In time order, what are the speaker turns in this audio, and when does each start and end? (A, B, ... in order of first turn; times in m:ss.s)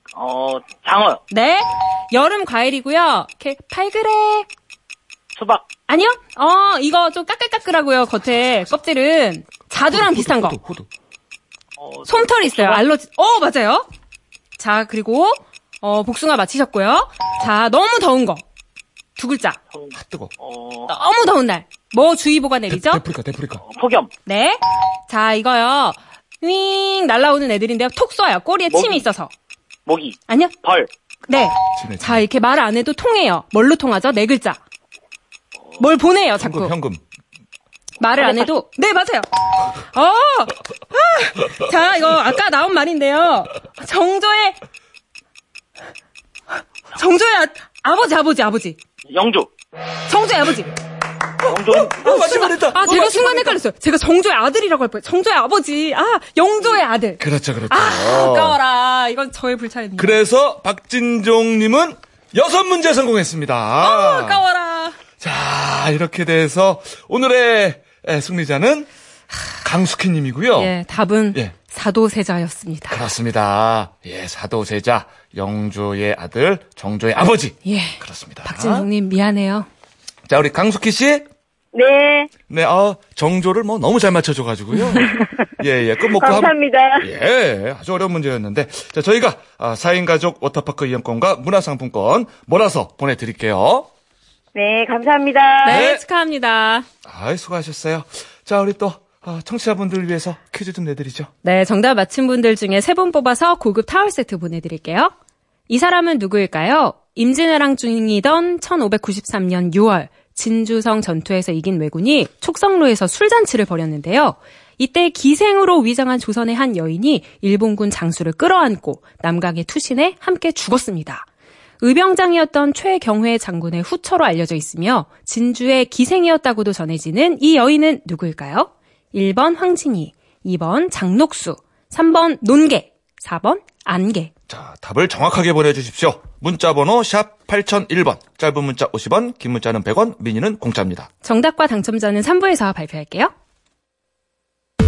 0:00.1-0:01.2 A
0:01.3-0:04.5 B
0:05.4-0:05.6 A
0:05.9-0:10.6 B
0:09.9-0:10.9 C
0:11.8-0:12.8 A
0:12.1-0:13.9 B
0:14.6-0:18.4 B
0:19.2-0:19.6 B
0:19.7-0:20.9 A
0:19.9-0:20.3 C
0:20.9-0:23.0 B
0:22.7-0:23.6 C
0:23.6-0:24.1 A
0:24.2-0:29.3 B
0:28.7-0:29.0 A
0:29.9-0:30.9 A
0:30.3-0:30.5 B
0:31.3-0:34.6 B
0:31.7-0:32.2 C
0:35.6-0:35.9 A
0:35.8-0:36.7 B
0:36.4-0:37.0 C
0:38.0-0:39.3 B
0:38.2-0:38.5 D
0:39.9-0:44.6 B
0:46.9-0:48.8 B
0:49.1-0:49.5 A
0:50.1-0:50.7 B
0:51.4-0:52.0 A
0:51.5-0:53.6 C
0:51.8-1:00.2 B
0:57.2-0:58.6 C
1:00.0-1:04.4 C
1:03.8-1:05.0 B
1:05.2-1:08.9 C
1:09.6-1:10.7 C
1:10.6-1:13.0 B
1:12.9-1:18.9 C
1:17.6-1:19.7 B
1:20.3-1:21.2 C
1:21.7-1:22.3 D
1:22.5-1:33.9 C
1:26.2-1:27.1 D
1:34.5-1:35.8 D
1:35.6-1:36.8 B
1:35.7-1:36.0 C
1:37.0-1:41.3 C
1:41.4-1:45.1 B
1:45.7-2:01.2 B
2:01.8-2:14.3 B
2:14.5-2:21.1 C
2:21.2-2:23.3 B